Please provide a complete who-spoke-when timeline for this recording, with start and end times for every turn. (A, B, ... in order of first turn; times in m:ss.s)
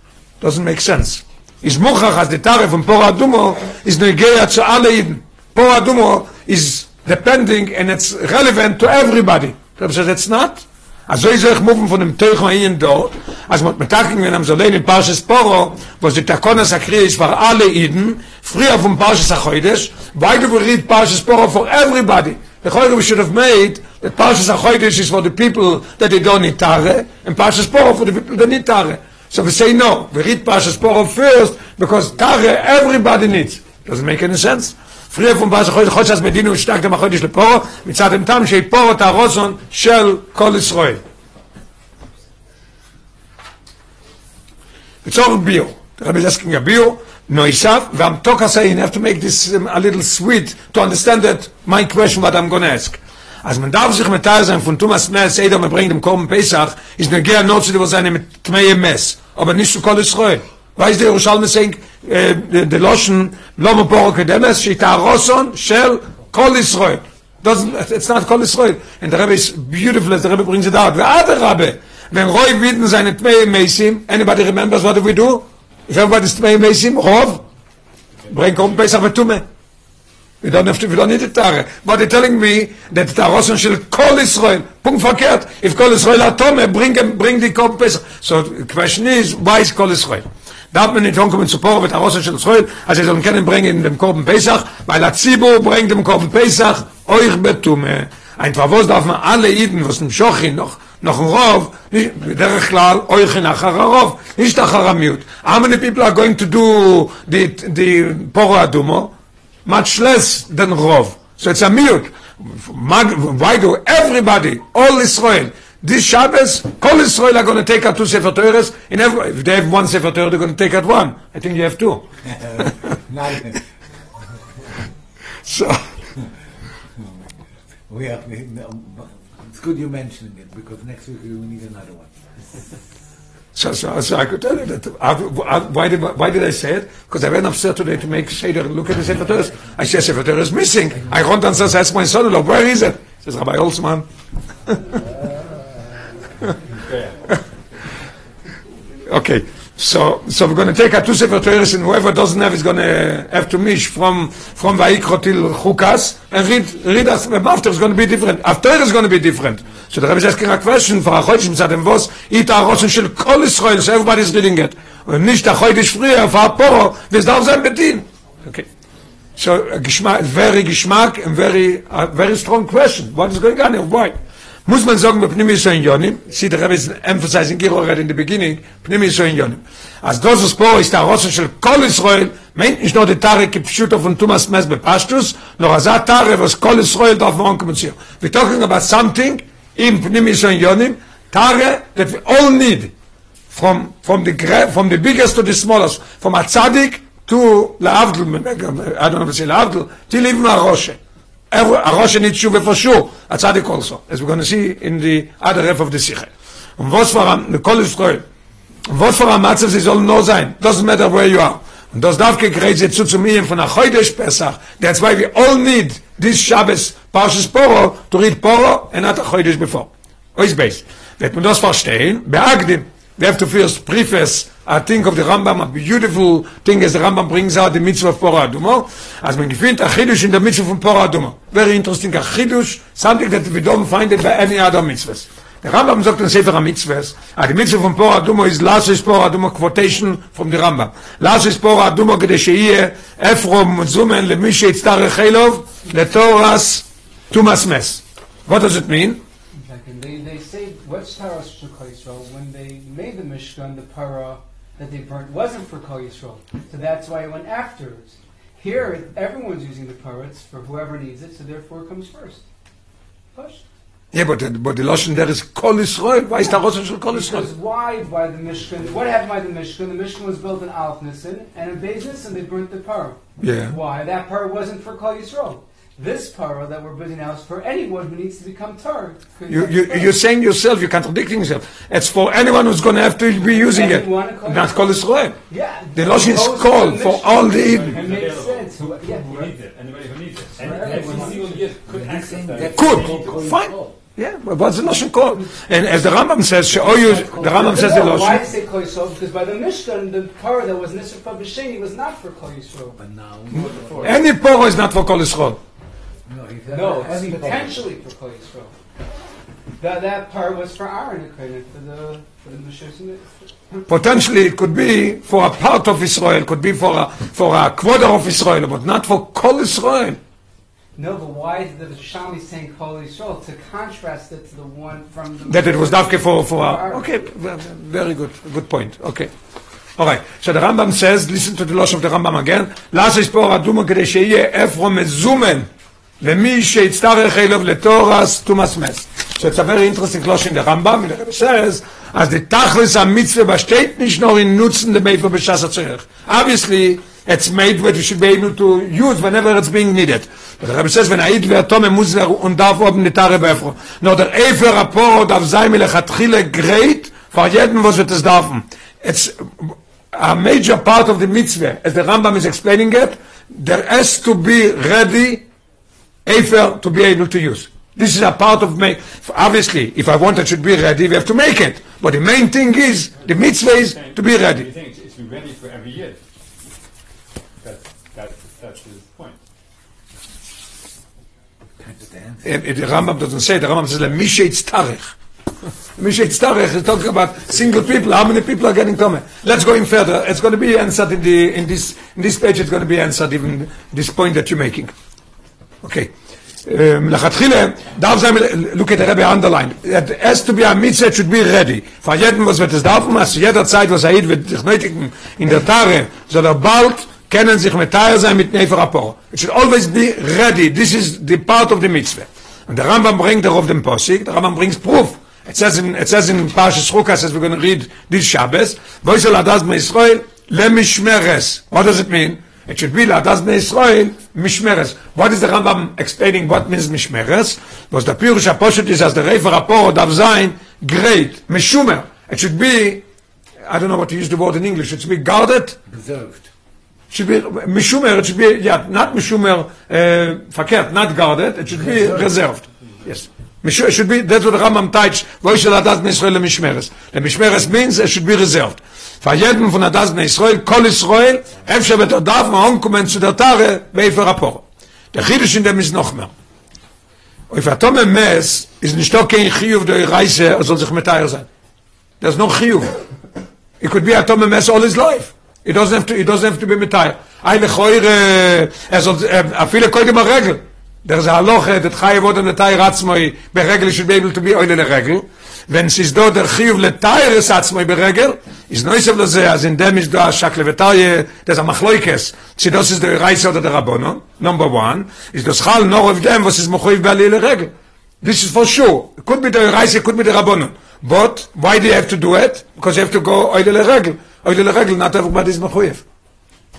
0:00.4-0:41.0 A
0:45.0-1:17.4 A
1:18.3-1:19.4 A
1:20.4-1:49.1 A
1:49.6-2:02.0 A
2:02.4-2:03.6 B
2:05.4-2:05.8 A
2:07.9-2:12.1 B
2:13.5-2:24.1 A
2:24.7-2:25.0 A
2:29.1-2:48.6 A
2:49.4-3:12.9 A
3:13.5-3:21.0 A
3:21.5-3:28.2 A
3:28.9-4:09.2 A
4:09.6-4:22.4 C
4:23.4-4:23.6 C
4:24.1-4:27.5 A
4:27.1-4:40.1 C
4:33.4-4:33.8 A
4:39.5-4:45.4 A
4:43.4-4:44.9 C
4:45.5-4:49.5 C
4:45.9-4:48.0 A
4:47.5-4:53.4 D
4:50.6-4:51.5 C
4:50.6-4:53.9 B
4:52.7-4:58.4 A
4:57.0-5:03.0 C
5:03.0-5:04.2 B
5:04.0-5:05.6 A
5:06.3-5:07.9 B
5:06.7-5:08.7 C
5:09.8-5:13.8 C
5:13.9-5:20.2 A
5:21.0-5:27.1 C
5:25.5-5:29.3 A
5:30.0-5:35.7 A
5:36.2-6:05.4 A
6:06.2-6:14.7 A
6:13.2-6:16.2 D
6:17.6-6:19.4 D
6:21.8-6:22.4 B
6:22.4-6:25.1 A
6:26.0-6:34.9 A
6:35.8-6:36.1 A
6:36.6-7:13.0 A
7:13.6-7:15.8 A
7:15.9-7:16.5 B
7:17.1-7:36.3 A
7:21.7-7:22.3 B
7:37.5-7:41.5 A
7:42.2-7:42.9 A
7:43.8-8:16.0 A